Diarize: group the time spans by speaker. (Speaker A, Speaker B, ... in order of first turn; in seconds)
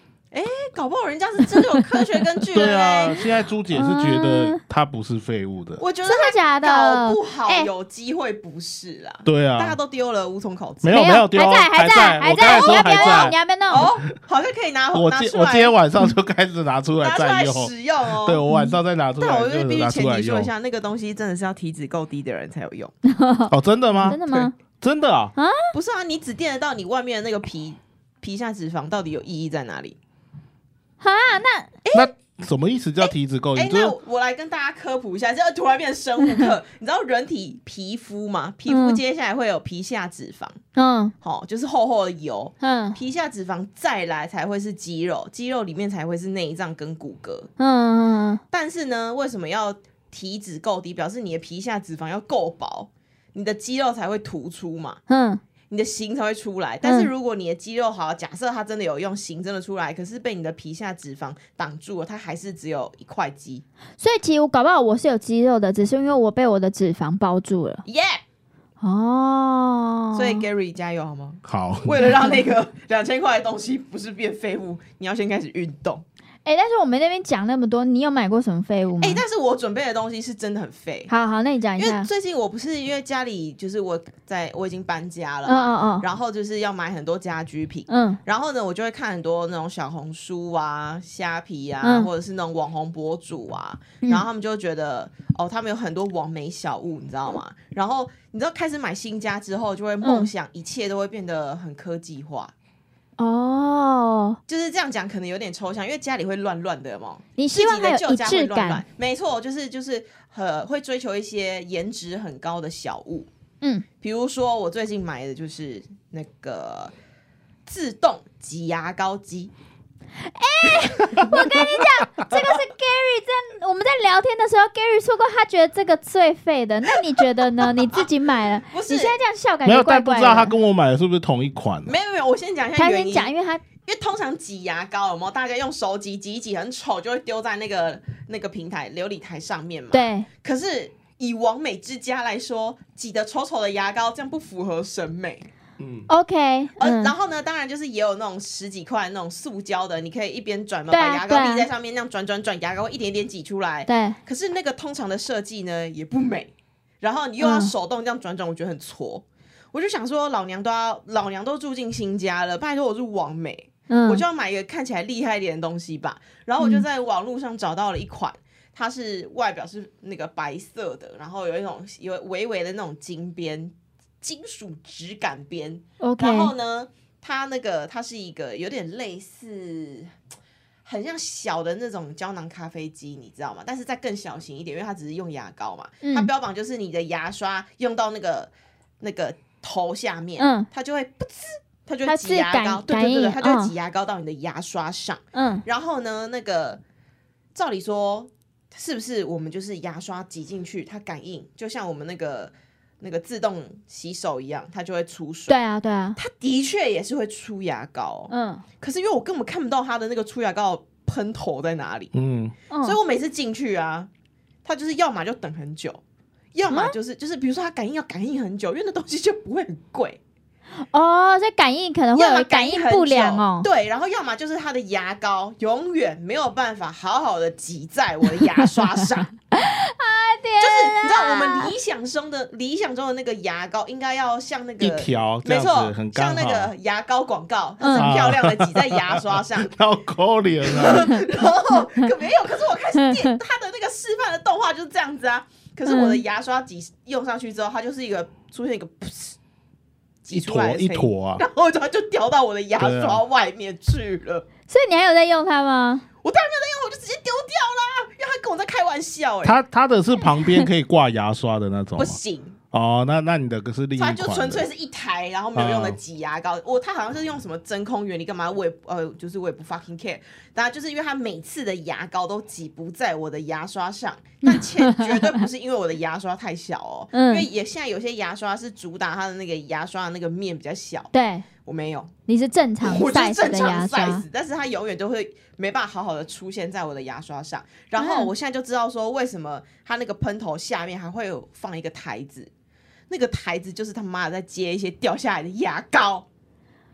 Speaker A: 0.3-3.2, 5.8-11.0, 12.3-15.8, 17.0-18.4, 19.2-22.9, 25.7-30.0, 31.9-32.1, 33.0-40.6, 41.2-47.5, 48.5-55.0, 55.7-63.6, 67.8-68.2, 70.2-76.0, 79.0-81.1, 81.8-102.5, 104.5-113.3, 114.0-116.9, 117.7-119.5, 127.6-128.1, 128.7-129.2, 131.9-133.3, 133.8-145.5, 146.8-180.1, 180.8-196.8, 197.6-205.6, 206.2-212.1, 212.8-214.1, 214.7-216.0, 216.5-220.2, 222.2-229.3, 230.6-239.7, 240.7-249.4, 250.2-254.5, 256.2-259.6, 262.0-262.6, 264.0-281.1, 281.6-282.1, 282.8-292.5, 293.1-296.3
Speaker B: 2.5-5.8, 9.2-9.8, 10.8-13.3, 14.9-20.5, 23.5-24.2, 24.8-25.3, 31.9-34.0, 71.5-72.0, 129.7-131.9, 145.8-146.1, 212.1-212.5, 234.8-236.7, 237.9-241.2, 250.3-251.4, 252.8-253.2, 259.4-262.2, 262.7-264.7, 265.6-266.0
Speaker C: 3.7-4.6, 6.0-7.7, 10.9-13.9, 18.5-18.8, 23.1-24.5, 25.4-25.7, 31.0-31.7, 38.7-39.0, 40.8-41.1, 42.6-43.0, 47.6-48.4, 55.1-55.4, 56.8-57.1, 64.0-67.8, 68.8-70.4, 76.5-79.2, 81.1-82.1, 85.5-86.1, 87.9-88.2, 91.8-92.1, 100.0-100.3, 103.2-104.4, 107.4-108.8, 120.2-130.6, 132.8-133.6, 139.9-140.3, 146.1-147.1, 150.9-151.7, 153.9-154.2, 157.4-157.7, 163.9-164.2, 166.6-166.8, 176.0-176.5, 186.0-186.3, 190.4-190.7, 192.1-193.7, 195.3-195.6, 205.5-206.2, 208.3-208.6, 212.7-213.0, 216.7-216.9, 220.9-223.7, 229.5-231.7, 237.8-238.1, 241.1-242.1, 243.0-243.4, 245.9-246.2, 254.7-256.1, 274.4-275.5, 277.1-277.5, 281.1-281.5, 282.3-284.2, 288.0-288.3